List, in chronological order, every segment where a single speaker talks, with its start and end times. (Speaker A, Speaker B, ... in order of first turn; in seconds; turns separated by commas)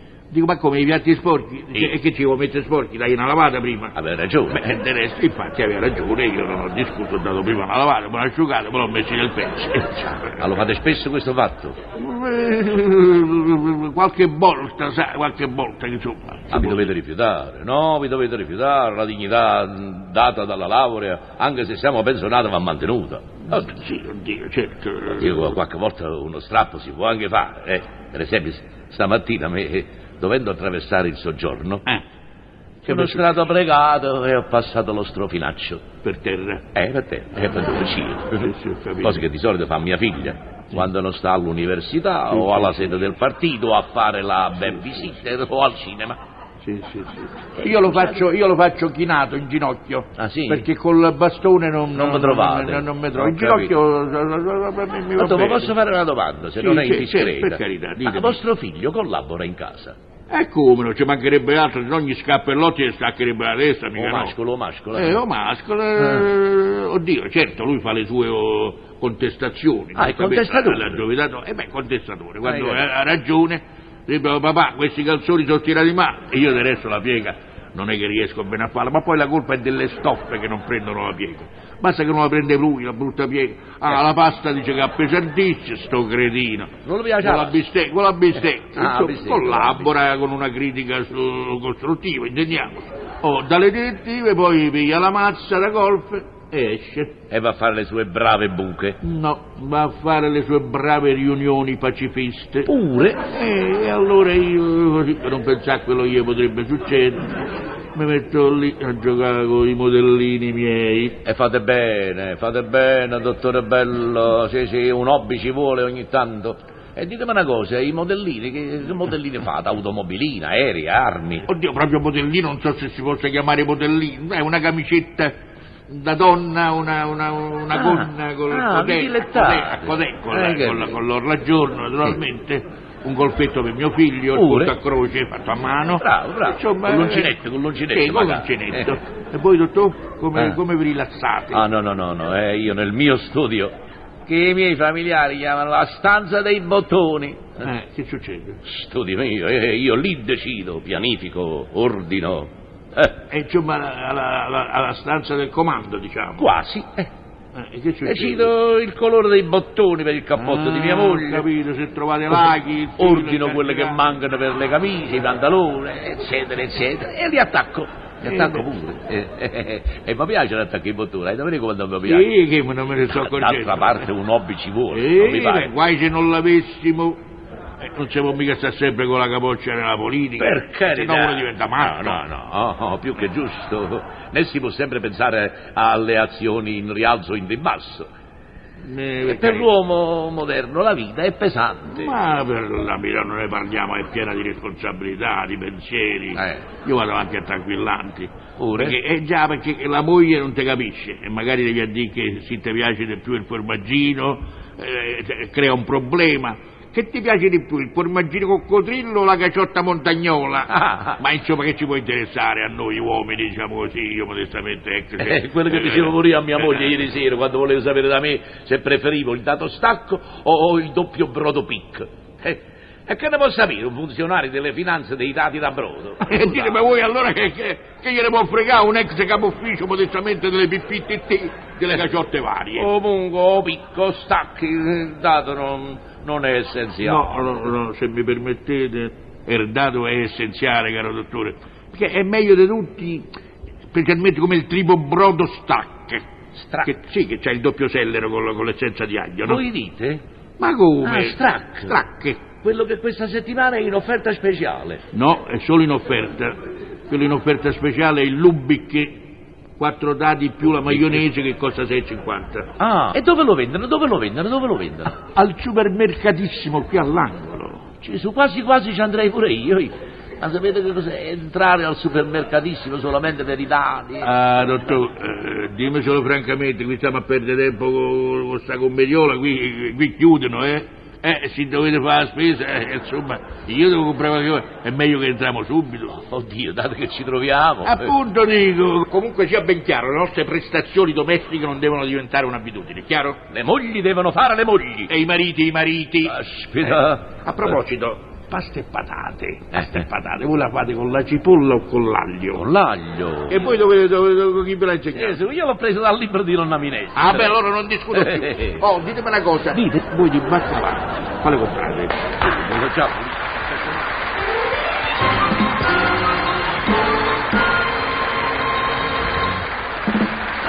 Speaker A: 0.3-4.0, Speaker B: 3.9-4.7, Speaker A: 4.5-10.4, Speaker B: 10.4-11.8, Speaker A: 11.9-16.9, Speaker B: 16.5-23.7, Speaker A: 23.5-25.6, Speaker B: 25.1-31.9, Speaker A: 32.8-33.4, Speaker B: 32.9-35.9, Speaker A: 36.0-36.6, Speaker B: 36.8-46.2, Speaker A: 38.3-39.2, Speaker A: 42.3-43.0, Speaker A: 46.6-55.7, Speaker B: 47.6-48.2, Speaker B: 50.2-50.7, Speaker B: 52.0-53.7, Speaker B: 55.2-60.0, Speaker A: 56.6-58.4, Speaker A: 60.3-64.3, Speaker B: 64.0-65.2, Speaker A: 64.9-97.2, Speaker B: 66.0-66.3, Speaker B: 70.0-71.0, Speaker B: 72.4-72.9, Speaker B: 86.8-87.6, Speaker B: 88.3-89.9, Speaker B: 97.3-99.0, Speaker A: 99.0-102.7, Speaker B: 102.7-103.3, Speaker A: 103.3-107.3, Speaker A: 107.9-111.2, Speaker B: 111.2-121.5, Speaker A: 121.5-125.3, Speaker A: 125.9-137.3, Speaker B: 127.7-131.0, Speaker B: 134.3-134.8, Speaker B: 135.9-139.0, Speaker A: 137.9-141.6, Speaker B: 141.5-143.7, Speaker B: 144.3-147.7, Speaker A: 147.6-148.6, Speaker B: 148.6-153.2, Speaker A: 153.3-156.5, Speaker B: 156.4-157.1, Speaker A: 157.6-158.5, Speaker B: 158.1-161.5, Speaker A: 160.4-164.0, Speaker B: 162.3-172.3, Speaker A: 168.3-168.7, Speaker A: 172.1-174.1, Speaker B: 173.1-175.7, Speaker A: 174.9-177.2, Speaker A: 177.8-182.2, Speaker B: 180.4-188.1, Speaker A: 188.8-189.7, Speaker B: 189.2-192.1, Speaker A: 191.9-216.2, Speaker B: 196.3-196.7, Speaker B: 198.6-199.0, Speaker B: 210.7-211.2, Speaker B: 215.2-226.8, Speaker A: 226.3-232.9, Speaker B: 232.8-237.7, Speaker A: 237.0-243.3, Speaker A: 243.9-246.2, Speaker B: 246.6-246.9, Speaker A: 246.8-249.6, Speaker B: 249.4-250.2, Speaker A: 250.6-252.4, Speaker B: 251.0-252.0, Speaker B: 252.5-255.0, Speaker A: 255.1-256.6, Speaker A: 257.1-259.2, Speaker A: 259.8-262.7, Speaker B: 260.9-261.2, Speaker B: 262.8-265.2, Speaker A: 265.3-267.9, Speaker B: 268.0-275.0, Speaker A: 274.2-286.2, Speaker B: 286.1-288.1, Speaker A: 287.9-293.4, Speaker B: 293.5-295.1, Speaker A: 295.1-302.6, Speaker B: 296.2-297.7, Speaker B: 299.7-300.1, Speaker B: 302.5-303.8, Speaker A: 303.5-305.4, Speaker B: 305.1-307.6, Speaker A: 307.1-312.4, Speaker B: 308.1-308.8, Speaker B: 309.7-310.0, Speaker B: 312.4-314.0